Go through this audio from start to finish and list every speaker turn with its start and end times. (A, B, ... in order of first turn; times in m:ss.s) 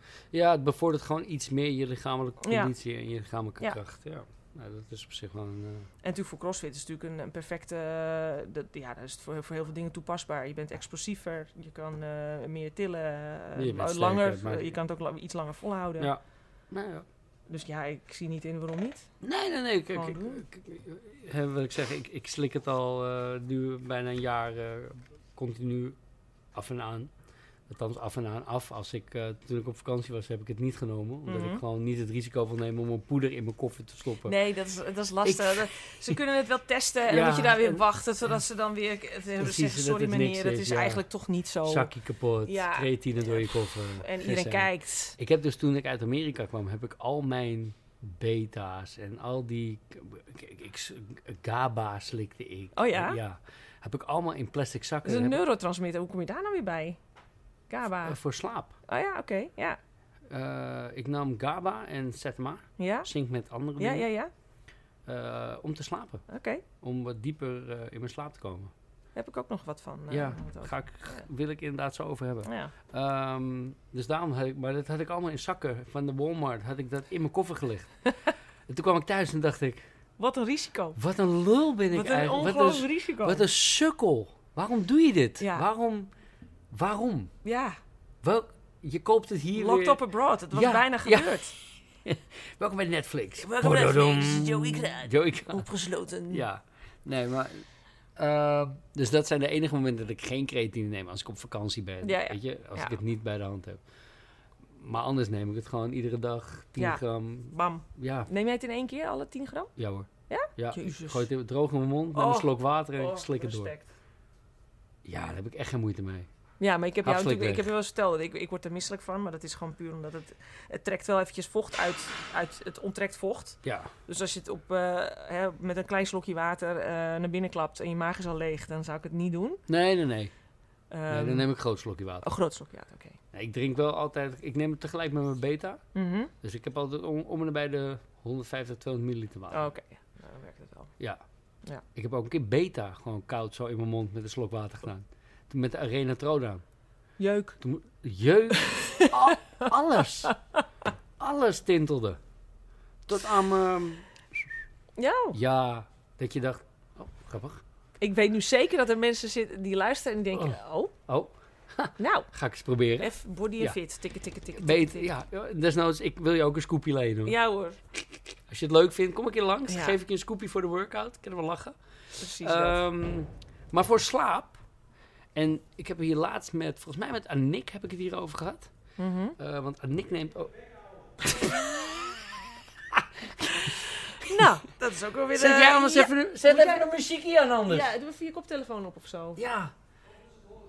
0:00.3-0:05.9 A
0:02.4-0:02.7 B
0:06.0-0:16.1 B
0:13.6-0:14.8 A
0:16.0-0:17.1 A
0:17.5-0:19.1 B
0:19.2-0:26.0 A
0:19.9-0:20.4 B
0:26.5-0:27.1 A
0:27.7-0:34.3 A
0:31.2-0:31.6 B
0:34.2-0:41.9 B
0:35.2-0:36.2 A
0:37.1-0:37.8 A
0:39.4-0:41.0 A
0:41.6-0:55.4 A
0:42.4-0:45.2 B
0:52.7-0:53.2 B
0:55.0-0:57.0 B
0:57.7-0:58.2 B
0:58.0-0:58.7 A
0:58.9-0:59.8 B
1:00.3-1:04.0 A
1:02.8-1:03.1 B
1:03.8-1:04.3 B
1:05.0-1:06.2 A
1:06.3-1:06.6 B
1:06.8-1:08.7 A
1:09.1-1:11.2 B
1:10.1-1:17.9 A
1:12.4-1:12.7 B
1:18.7-1:19.8 A
1:20.2-1:21.0 B
1:21.0-1:26.1 A
1:21.9-1:23.4 B
1:25.4-1:25.6 B
1:26.7-1:27.3 A
1:27.4-1:27.8 B
1:28.2-1:30.0 A
1:29.5-1:31.5 B
1:30.5-1:35.7 A
1:33.4-1:36.4 B
1:36.3-1:43.8 A
1:42.0-1:43.0 B
1:44.7-1:48.3 A
1:46.8-1:49.7 B
1:49.8-1:53.7 A
1:50.3-1:51.3 B
1:52.1-1:53.9 B
1:55.0-1:56.3 A
1:56.6-2:09.6 B
1:57.0-1:57.7 A
2:03.6-2:03.9 A
2:09.7-2:10.3 A
2:10.9-2:11.5 B
2:11.1-2:12.2 A
2:12.2-2:13.2 B
2:13.3-2:15.8 A
2:15.9-2:16.3 B
2:16.4-2:19.7 A
2:19.5-2:20.9 B
2:21.9-2:26.6 A
2:27.2-2:27.6 B
2:27.6-2:30.3 A
2:28.6-2:29.7 B
2:30.2-2:30.6 B
2:31.2-2:32.2 A
2:33.0-2:34.5 A
2:35.0-2:35.4 B
2:35.3-2:37.6 A
2:38.0-2:40.9 B
2:40.3-2:43.8 A
2:42.0-2:42.3 B
2:43.0-2:45.1 B
2:44.5-2:47.4 A
2:47.2-2:47.8 B
2:47.9-2:54.6 A
2:49.7-2:50.0 B
2:52.2-2:52.8 B
2:55.3-2:58.7 A
2:59.0-2:59.4 B
2:59.4-3:00.6 A
3:01.2-3:02.1 A
3:02.9-3:04.5 A
3:04.1-3:06.9 B
3:05.3-3:07.9 A
3:07.6-3:09.4 B
3:09.4-3:09.7 A